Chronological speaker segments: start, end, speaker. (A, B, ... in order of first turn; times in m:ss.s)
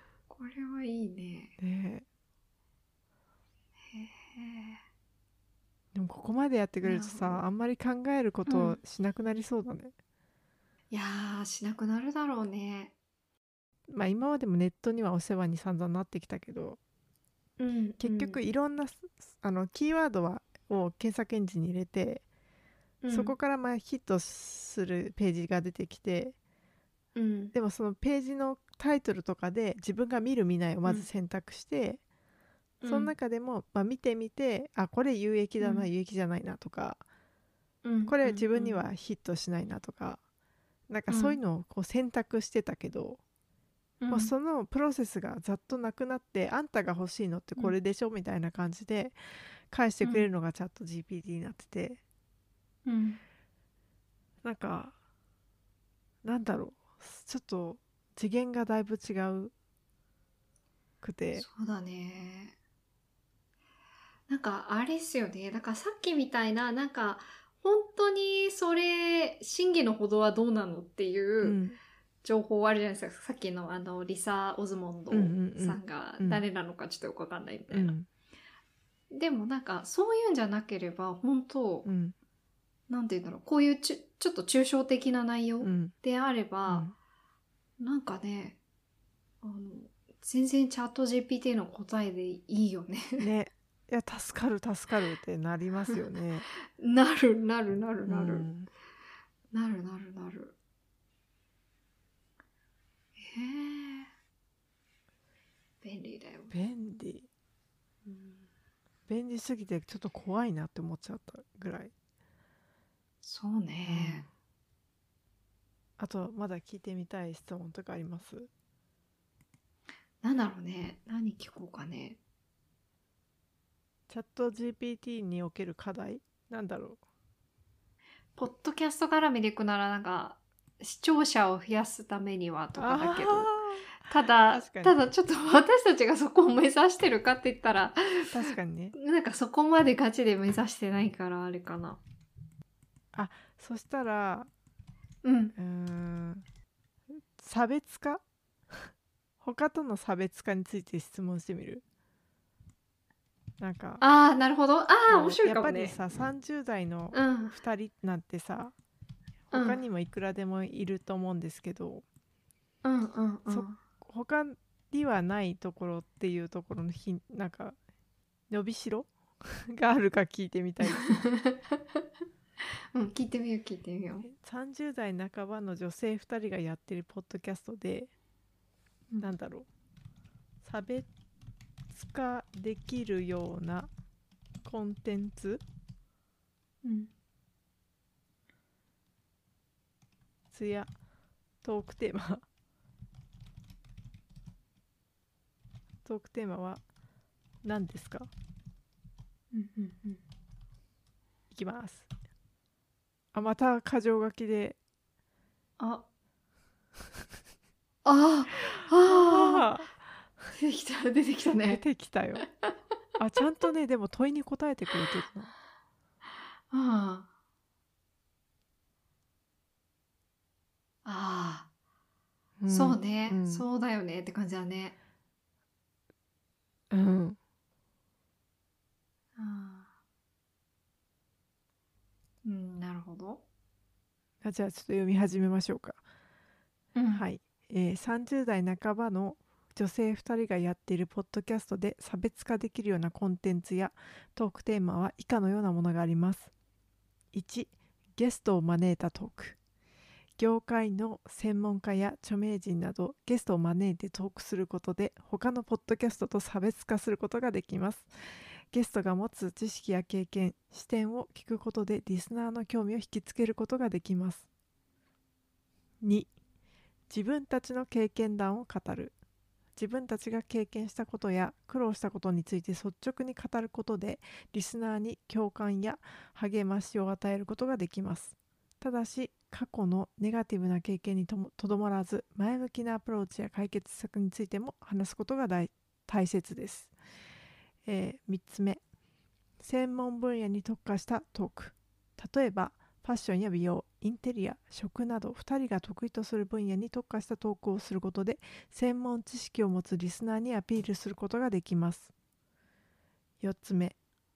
0:00.3-0:01.5 A
0:01.6-0:02.0 B
0:03.9-0:04.8 A
0:05.9-0:09.9 B
0:06.8-0:07.4 A
0:08.4-0:08.8 A
0:10.9-0:12.9 A
0:13.9-0:16.8 B
0:17.6-0:18.4 A
0:18.0-0:22.2 B
0:23.0-0:23.3 A
0:23.1-0:26.4 B
0:27.1-0:27.5 A
0:27.5-0:32.0 B
0:32.8-0:33.1 A
0:32.9-0:37.0 B
0:35.6-0:35.9 A
0:37.8-0:38.8 A
0:38.1-0:40.2 B
0:40.9-0:43.2 B
0:41.1-0:41.4 A
0:44.0-0:44.3 A
0:44.1-0:49.2 B
0:49.7-0:52.0 B
0:50.0-0:50.3 A
0:52.8-0:53.2 A
0:54.4-0:54.9 B
0:56.2-0:59.5 B
1:01.0-1:01.4 B
1:01.3-1:02.6 A
1:04.3-1:11.6 A
1:11.4-1:11.8 B
1:12.2-1:17.9 A
1:15.1-1:16.4 B
1:17.7-1:18.1 B
1:19.1-1:21.9 A
1:21.8-1:22.2 B
1:22.9-1:26.9 A
1:25.6-1:25.9 B
1:26.7-1:26.9 B
1:27.8-1:28.6 A
1:29.4-1:33.3 A
1:33.2-1:36.4 B
1:36.8-1:38.5 A
1:38.0-1:38.7 B
1:39.5-1:40.5 A
1:43.2-1:44.1 A
1:45.8-1:46.5 A
1:46.5-1:47.3 B
1:48.0-1:48.5 A
1:49.1-1:51.9 B
1:53.2-1:54.2 A
1:53.9-1:54.3 B
1:56.0-1:58.5 B
2:00.2-2:02.2 A
2:04.1-2:07.0 B
2:08.4-2:13.5 A
2:12.8-2:14.9 B
2:14.0-2:18.3 A
2:18.3-2:18.9 B
2:18.9-2:22.0 A
2:23.1-2:24.5 B
2:25.2-2:25.5 A
2:25.6-2:26.4 B
2:27.1-2:28.9 B
2:29.4-2:31.8 B
2:33.6-2:34.0 B
2:34.0-2:36.0 A
2:35.1-2:38.7 B
2:37.1-2:37.6 A
2:39.5-2:42.0 B
2:39.5-2:39.8 A
2:42.8-2:43.8 A
2:43.5-2:47.8 B
2:48.5-2:51.1 B
2:50.9-2:52.0 A
2:52.9-2:54.3 A
2:54.2-2:58.1 B
2:59.2-2:59.7 B
3:00.6-3:01.1 B
3:01.9-3:03.9 B
3:04.6-3:05.6 B
3:06.8-3:07.1 A
3:10.5-3:10.9 B
3:11.6-3:12.4 B
3:16.0-3:16.8 B
3:17.6-3:18.3 B
3:19.5-3:20.2 A
3:21.5-3:22.1 B
3:23.3-3:24.8 B
3:25.8-3:26.0 A
3:28.0-3:29.7 A
3:28.5-3:30.0 B
3:30.5-3:31.8 A
3:31.7-3:32.4 B
3:33.2-3:35.5 B
3:36.7-3:37.3 A
3:41.0-3:41.7 A
3:42.6-3:43.6 B
3:42.7-3:45.0 A
3:46.9-3:47.4 B
3:49.4-3:49.9 A
3:52.4-3:53.4 A
3:54.4-3:56.0 B
3:57.0-3:57.2 A
3:57.1-4:06.5 B
4:07.3-4:09.6 B
4:10.4-4:18.1 B
4:18.7-4:24.5 B
4:26.0-4:26.3 B
4:27.1-4:29.1 B
4:29.8-4:46.9 B
4:47.8-4:48.8 B
4:49.6-5:02.1 B
5:03.4-5:04.0 B